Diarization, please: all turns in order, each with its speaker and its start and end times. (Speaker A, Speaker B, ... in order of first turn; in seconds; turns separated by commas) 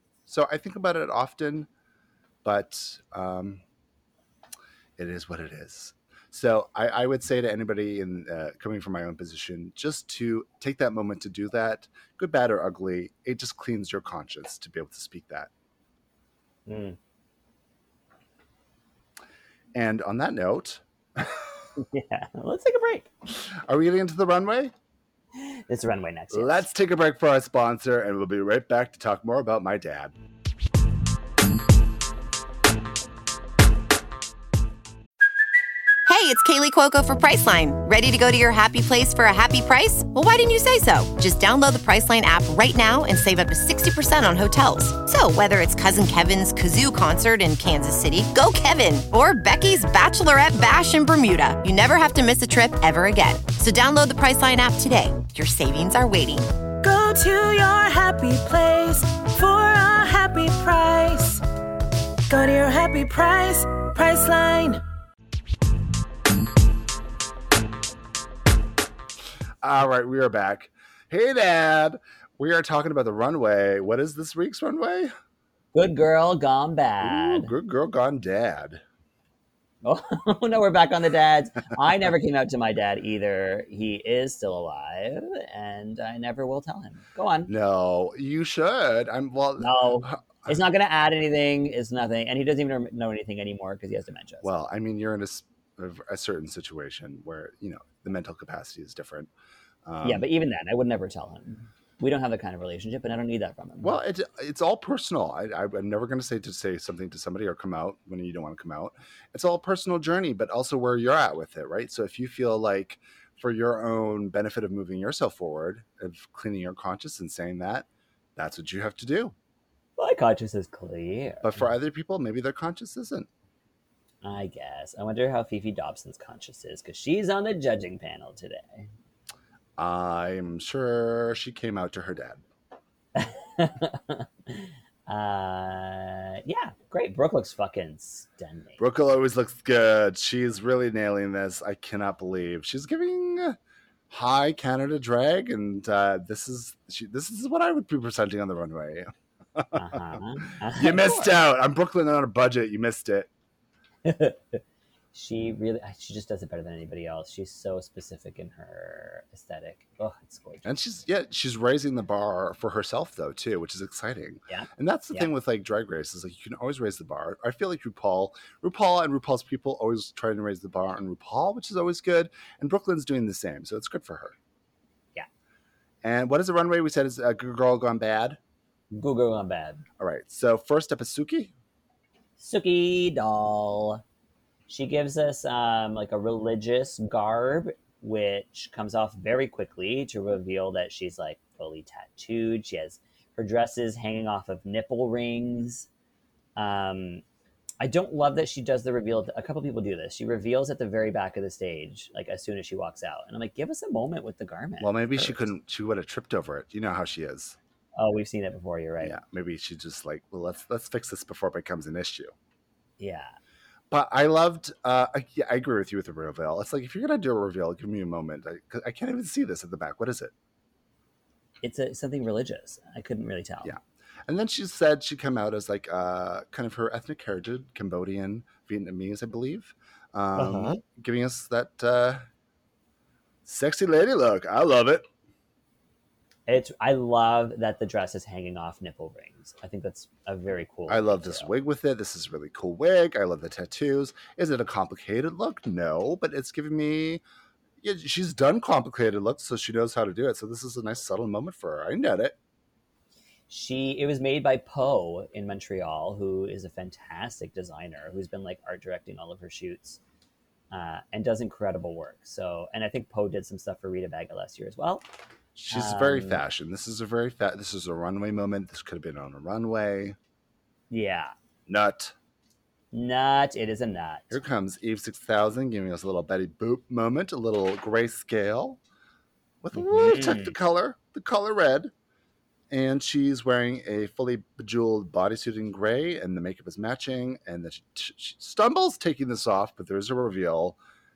Speaker A: 0.2-1.7, Speaker A: 2.4-3.6, Speaker A: 5.0-15.5, Speaker B: 16.7-17.0, Speaker A: 19.7-21.5, Speaker B: 21.8-23.1, Speaker A: 23.3-24.7, Speaker B: 25.3-26.7, Speaker A: 26.3-30.1, Speaker C: 36.0-56.5, Speaker D: 56.8-61.4, Speaker D: 62.3-64.8, Speaker A: 69.6-75.1, Speaker B: 75.7-77.5, Speaker A: 77.0-78.8, Speaker B: 79.8-87.5, Speaker A: 87.5-90.6, Speaker B: 89.6-94.6, Speaker A: 94.4-99.3, Speaker A: 99.8-100.2, Speaker B: 100.0-104.0, Speaker A: 103.8-119.3, Speaker B: 120.0-121.7, Speaker A: 121.4-123.3, Speaker B: 124.2-128.9, Speaker A: 129.8-132.4, Speaker B: 133.1-138.8, Speaker A: 138.8-143.6, Speaker A: 144.1-153.3, Speaker B: 149.7-151.4, Speaker B: 154.0-154.6, Speaker B: 155.1-160.7, Speaker A: 160.6-174.3, Speaker B: 164.5-165.3, Speaker A: 176.0-178.4, Speaker B: 178.9-179.8, Speaker A: 180.0-181.5, Speaker B: 182.4-184.0, Speaker B: 184.7-195.9, Speaker B: 196.6-197.2, Speaker B: 197.8-205.5, Speaker A: 204.8-207.6, Speaker B: 207.9-209.2, Speaker A: 209.0-212.3, Speaker B: 213.0-213.3, Speaker A: 213.9-220.3, Speaker B: 221.6-223.7, Speaker A: 223.6-232.2, Speaker B: 230.3-230.8, Speaker A: 233.4-235.1, Speaker B: 236.5-241.5, Speaker A: 240.9-247.2, Speaker A: 247.8-252.3, Speaker B: 253.5-260.0, Speaker B: 260.7-265.0, Speaker A: 265.5-270.1, Speaker B: 265.7-266.4, Speaker B: 270.9-271.3, Speaker A: 271.7-272.1, Speaker B: 272.9-274.4, Speaker A: 274.3-278.8, Speaker A: 279.6-281.9, Speaker B: 279.7-280.6, Speaker A: 282.7-290.8